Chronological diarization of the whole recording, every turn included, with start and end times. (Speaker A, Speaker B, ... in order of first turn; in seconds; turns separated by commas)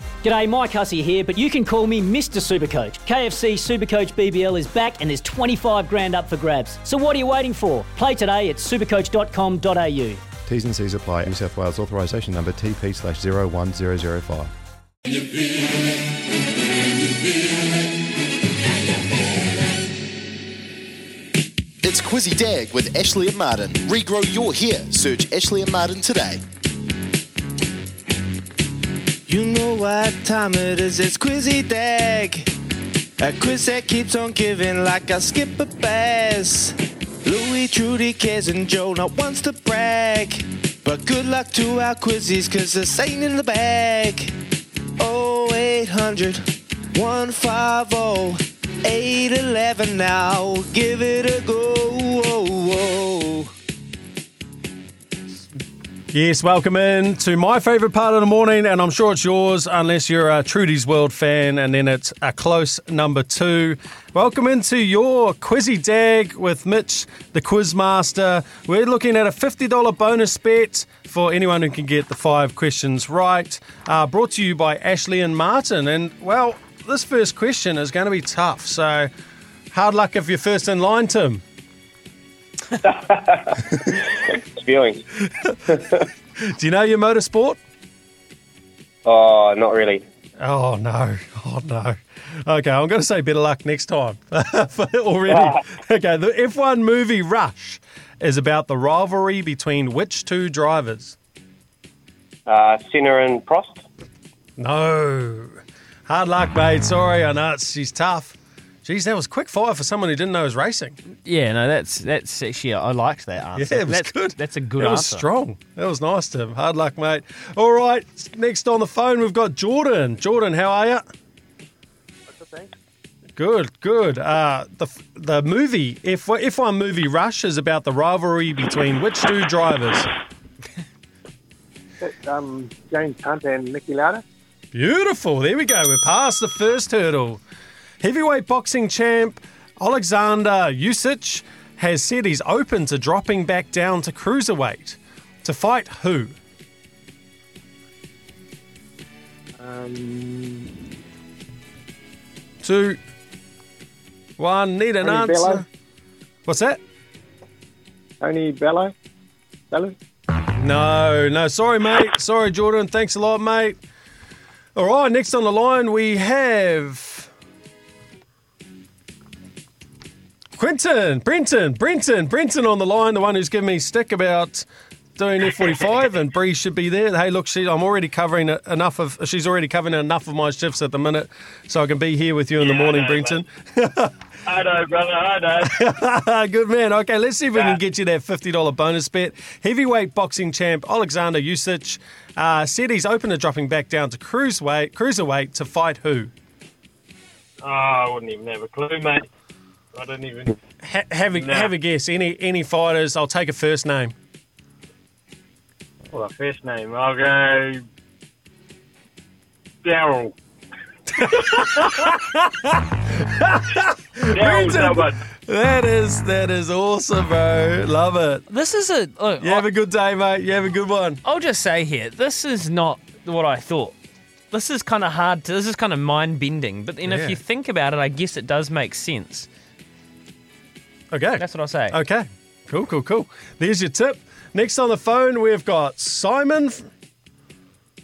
Speaker A: 0.2-10.2, Speaker B: 10.4-14.5, Speaker C: 21.8-26.4, Speaker D: 29.3-32.5, Speaker D: 33.2-44.3, Speaker D: 45.0-53.5, Speaker E: 56.1-79.1, Speaker E: 79.7-81.4, Speaker F: 82.9-83.4, Speaker F: 84.2-85.0, Speaker E: 85.3-85.8, Speaker E: 86.4-87.6, Speaker F: 89.0-90.0, Speaker E: 90.4-101.2, Speaker F: 95.3-95.6, Speaker F: 102.5-103.8, Speaker E: 104.6-111.0, Speaker G: 111.2-115.3, Speaker E: 113.5-121.0, Speaker H: 122.3-122.7, Speaker E: 123.4-130.1, Speaker H: 132.0-134.2, Speaker E: 134.7-137.4, Speaker E: 138.0-146.3, Speaker H: 149.6-150.7, Speaker E: 152.6-153.0, Speaker E: 154.4-155.7, Speaker H: 155.0-155.6, Speaker E: 156.4-156.8, Speaker H: 158.2-158.9, Speaker H: 159.7-159.9, Speaker E: 160.5-163.8, Speaker E: 164.8-167.3, Speaker E: 170.6-184.1, Speaker I: 182.6-183.3, Speaker I: 184.4-185.8, Speaker E: 185.6-196.3, Speaker I: 197.6-199.2, Speaker I: 199.9-200.6, Speaker E: 200.8-204.1, Speaker I: 201.3-201.7, Speaker I: 206.1-207.8, Speaker I: 209.8-210.3, Speaker E: 211.1-218.4, Speaker I: 214.3-215.2, Speaker G: 218.5-219.7, Speaker E: 219.4-221.2, Speaker G: 221.2-223.9, Speaker G: 224.5-229.5, Speaker E: 227.0-227.4, Speaker E: 231.1-236.9, Speaker G: 231.4-232.0